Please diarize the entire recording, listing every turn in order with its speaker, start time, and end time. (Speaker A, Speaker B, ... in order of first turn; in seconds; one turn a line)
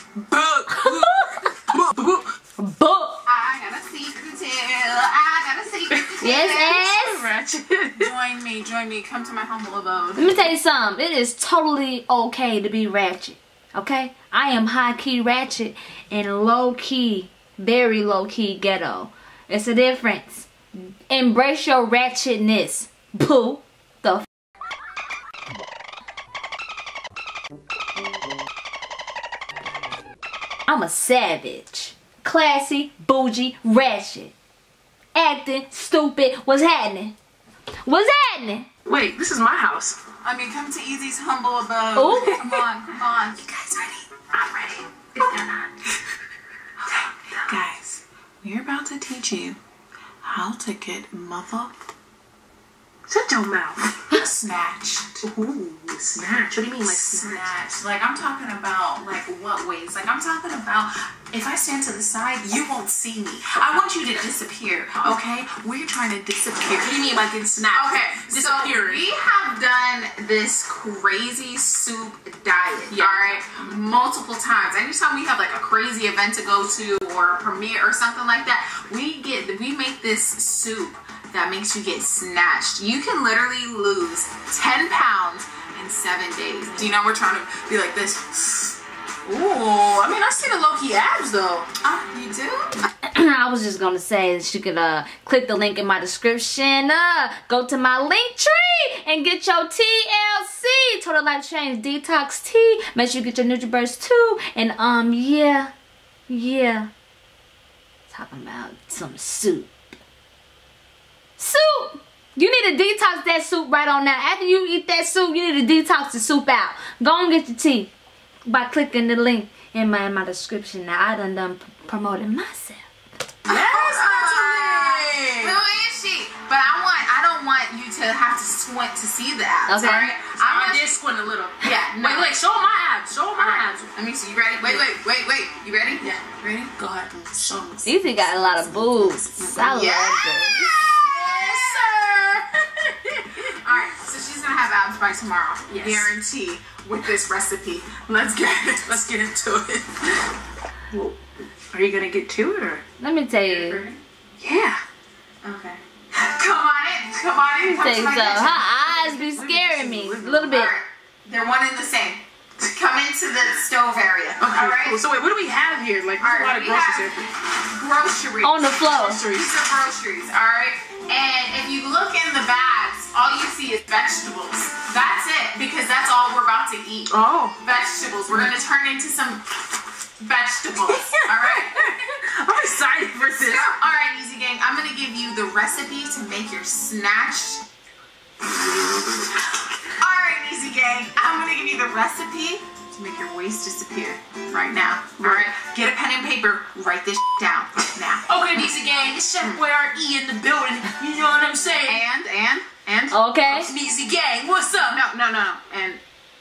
Speaker A: 0.2-2.3
Speaker B: 0.7-1.4
Speaker B: 2.6-3.2
Speaker C: 3.2-6.8
Speaker A: 5.9-8.1
Speaker B: 6.2-7.2
Speaker C: 8.0-10.3
Speaker B: 10.2-24.2
Speaker B: 30.7-34.3
Speaker B: 35.1-37.1
Speaker B: 37.9-38.7
Speaker A: 38.9-40.0
Speaker C: 40.2-43.9
Speaker B: 42.0-42.5
Speaker A: 44.3-45.7
Speaker C: 46.8-49.6
Speaker C: 50.2-51.7
Speaker A: 53.1-54.1
Speaker C: 54.1-55.2
Speaker A: 55.2-57.5
Speaker C: 56.8-67.2
Speaker A: 66.7-69.1
Speaker C: 67.7-88.8
Speaker A: 72.9-73.7
Speaker A: 89.2-91.7
Speaker C: 91.8-92.7
Speaker B: 93.1-105.7
Speaker B: 106.3-106.9
Speaker B: 108.1-109.8
Speaker B: 111.4-117.9
Speaker B: 118.5-122.8
Speaker C: 123.5-131.0
Speaker A: 123.5-125.6
Speaker B: 129.7-130.1
Speaker A: 129.8-133.9
Speaker C: 131.6-132.3
Speaker C: 133.3-136.7
Speaker A: 134.6-134.9
Speaker A: 136.0-136.2
Speaker A: 136.8-137.9
Speaker B: 137.8-140.7
Speaker C: 138.4-142.1
Speaker A: 140.8-143.6
Speaker C: 143.4-148.9
Speaker A: 145.7-146.1
Speaker A: 148.8-150.3
Speaker A: 150.9-151.2
Speaker A: 151.7-152.8
Speaker B: 153.0-153.8
Speaker C: 153.4-154.0
Speaker A: 154.4-154.8
Speaker C: 155.4-165.0
Speaker B: 157.7-160.7
Speaker A: 159.2-160.2
Speaker A: 164.4-167.2
Speaker C: 166.2-179.6
Speaker B: 168.4-169.2
Speaker A: 168.9-169.5
Speaker A: 177.1-177.6
Speaker C: 180.2-181.9
Speaker A: 180.9-183.7
Speaker C: 183.3-187.6
Speaker A: 188.4-189.5
Speaker C: 189.9-198.4
Speaker A: 195.2-195.5
Speaker A: 198.3-202.0
Speaker C: 201.8-203.7
Speaker B: 203.1-203.7
Speaker A: 203.7-205.0
Speaker C: 204.9-206.0